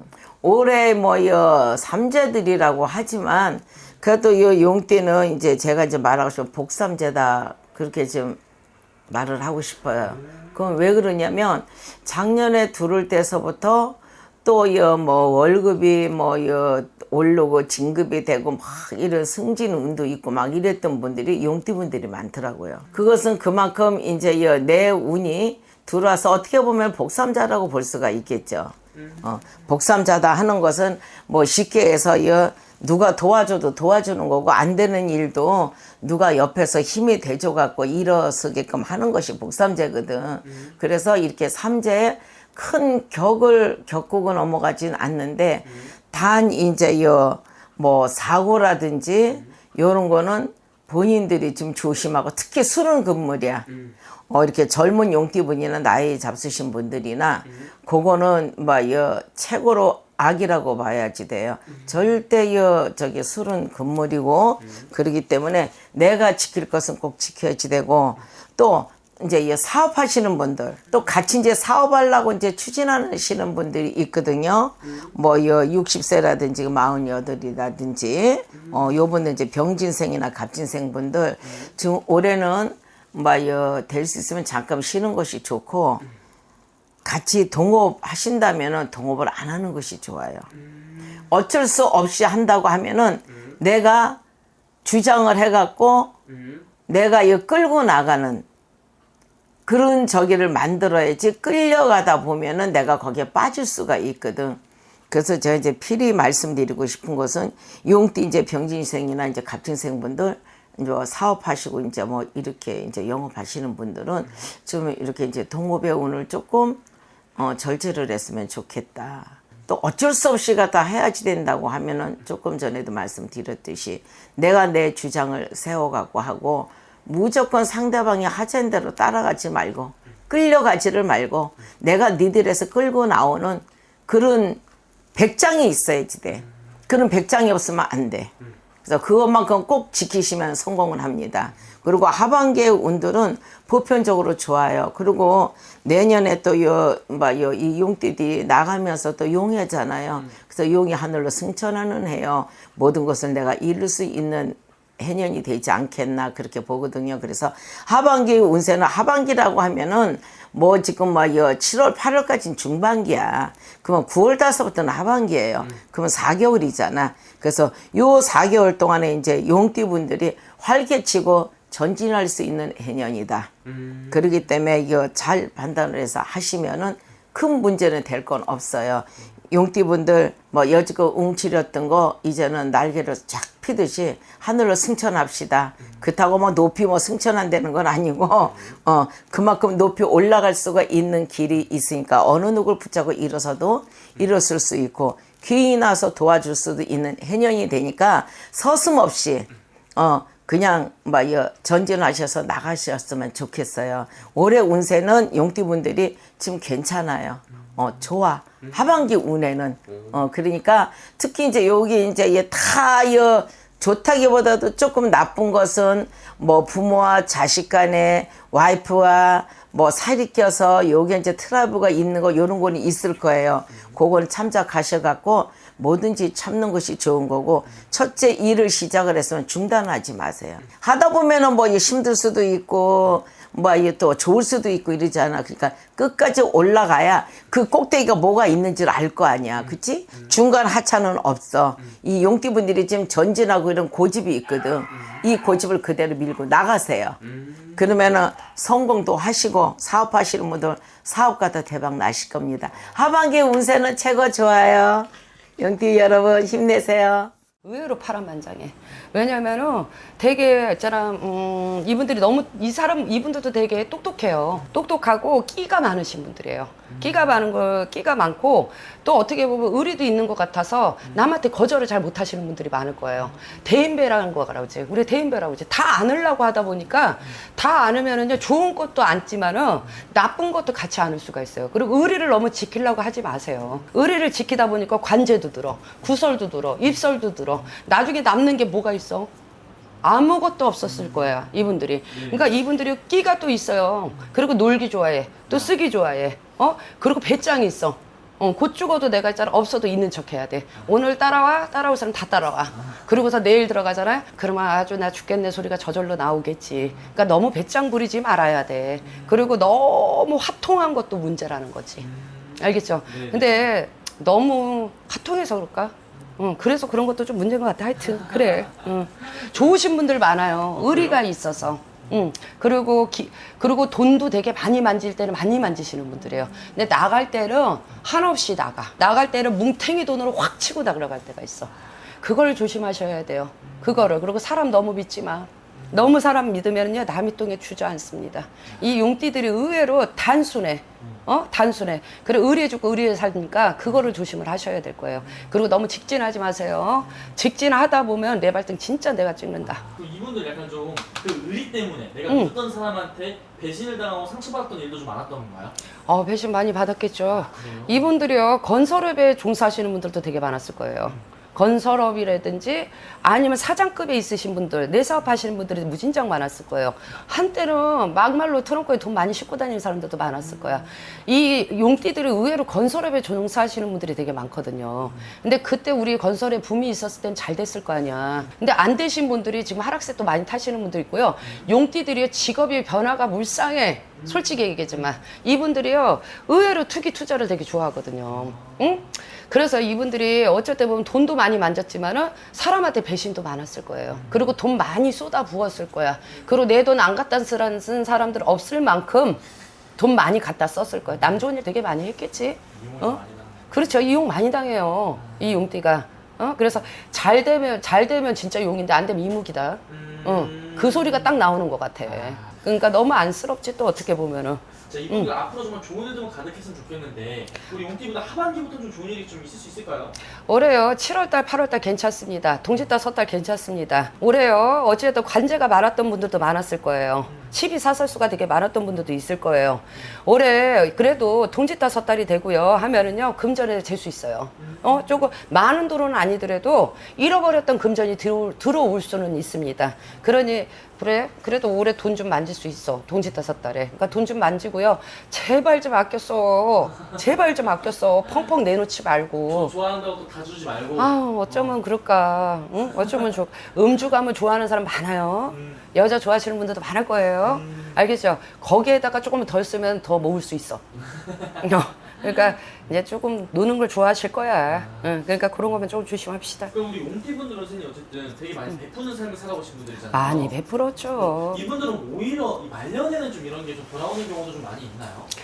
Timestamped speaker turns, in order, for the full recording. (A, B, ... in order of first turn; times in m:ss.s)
0:00.4-0:08.4 A
0:09.1-0:53.7 A
0:29.0-0:29.2 B
0:53.7-0:54.0 B
0:54.3-1:26.0 A
1:27.0-1:30.5 A
1:30.6-1:31.2 B
1:31.2-1:34.2 A
1:34.8-1:36.1 A
1:36.3-1:36.7 B
1:36.9-1:38.4 A
1:39.7-1:56.8 A
1:57.4-2:14.6 A
2:15.2-2:18.3 A
2:18.8-2:53.5 A
2:53.6-2:54.2 B
2:54.1-4:07.2 A
3:59.6-4:00.3 B
4:07.2-4:07.8 B
4:07.8-4:17.3 A
4:17.6-4:49.3 C
4:26.9-4:27.4 B
4:50.0-5:12.0 C
4:52.1-4:52.4 B
5:02.7-5:03.0 B
5:09.0-5:09.4 B
5:12.0-5:13.6 B
5:12.6-5:49.8 C
5:20.7-5:21.2 B
5:33.6-5:34.0 B
5:35.8-5:36.1 B
5:49.7-5:55.8 B
5:52.3-5:52.6 C
5:56.0-6:39.4 C
5:57.4-5:58.0 B
6:21.4-6:21.7 B
6:24.2-6:25.2 B
6:28.3-6:29.1 B
6:34.1-6:34.5 B
6:40.0-6:55.3 C
6:42.7-6:44.0 B
6:45.2-6:45.7 B
6:49.9-6:51.4 B
6:52.0-6:52.6 B
6:54.8-7:00.2 B
7:00.3-7:29.7 C
7:07.2-7:07.6 B
7:14.6-7:15.1 B
7:29.5-7:31.8 B
7:31.0-7:40.8 C
7:35.5-7:35.8 B
7:37.5-7:38.0 B
7:41.0-7:41.6 B
7:41.6-7:46.7 C
7:44.7-7:45.1 B
7:46.7-7:50.6 B
7:50.1-7:51.6 C
7:51.1-7:55.3 B